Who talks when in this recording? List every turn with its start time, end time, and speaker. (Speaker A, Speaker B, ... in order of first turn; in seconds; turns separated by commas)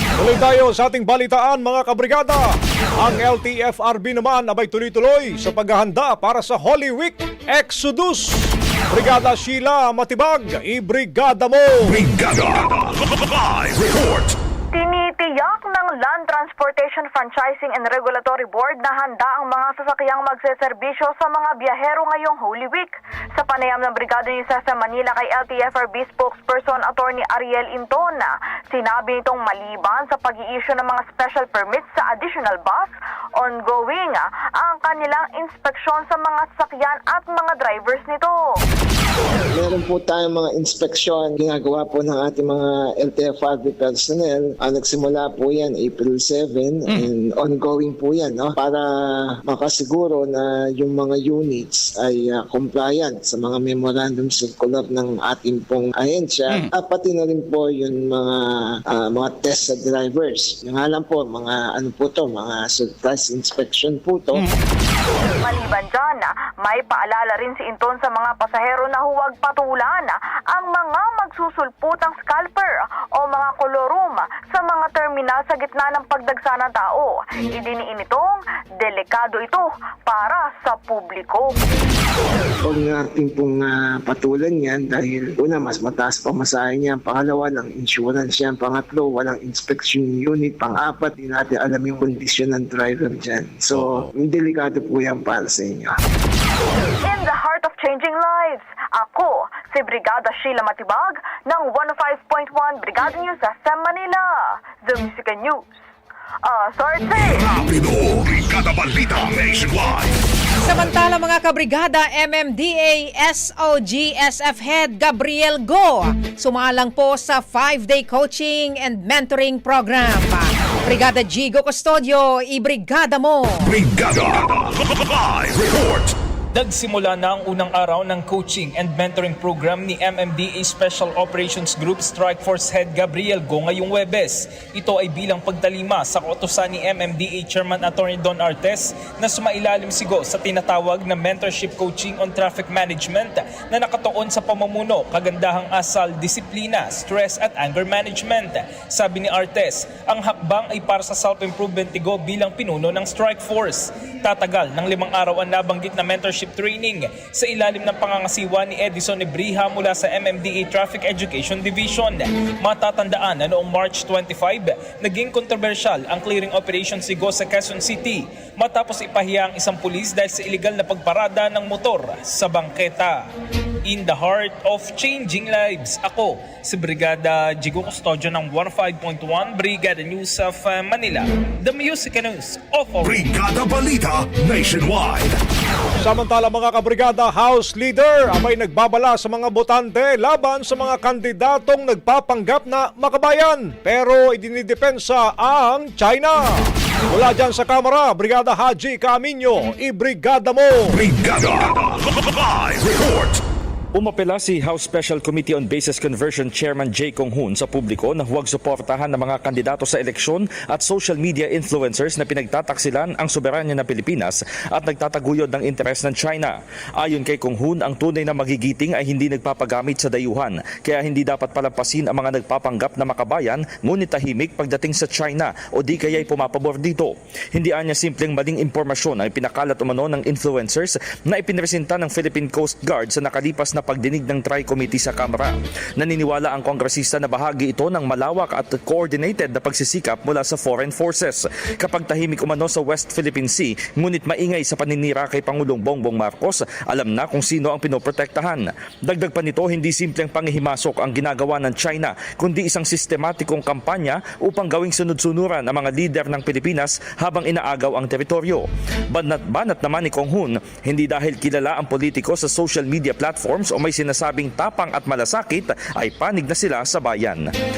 Speaker A: 0.2-12.0, Speaker B: 11.9-14.3, Speaker C: 14.7-38.4, Speaker D: 39.5-64.5, Speaker C: 65.4-81.5, Speaker D: 82.6-96.0, Speaker C: 97.0-105.7, Speaker C: 106.5-107.5, Speaker B: 107.2-110.1, Speaker E: 110.6-123.7, Speaker B: 123.7-126.1, Speaker F: 126.5-173.3, Speaker F: 173.9-183.3, Speaker B: 183.0-185.4, Speaker A: 186.0-196.5, Speaker A: 197.1-201.0, Speaker B: 200.9-203.4, Speaker G: 203.9-267.4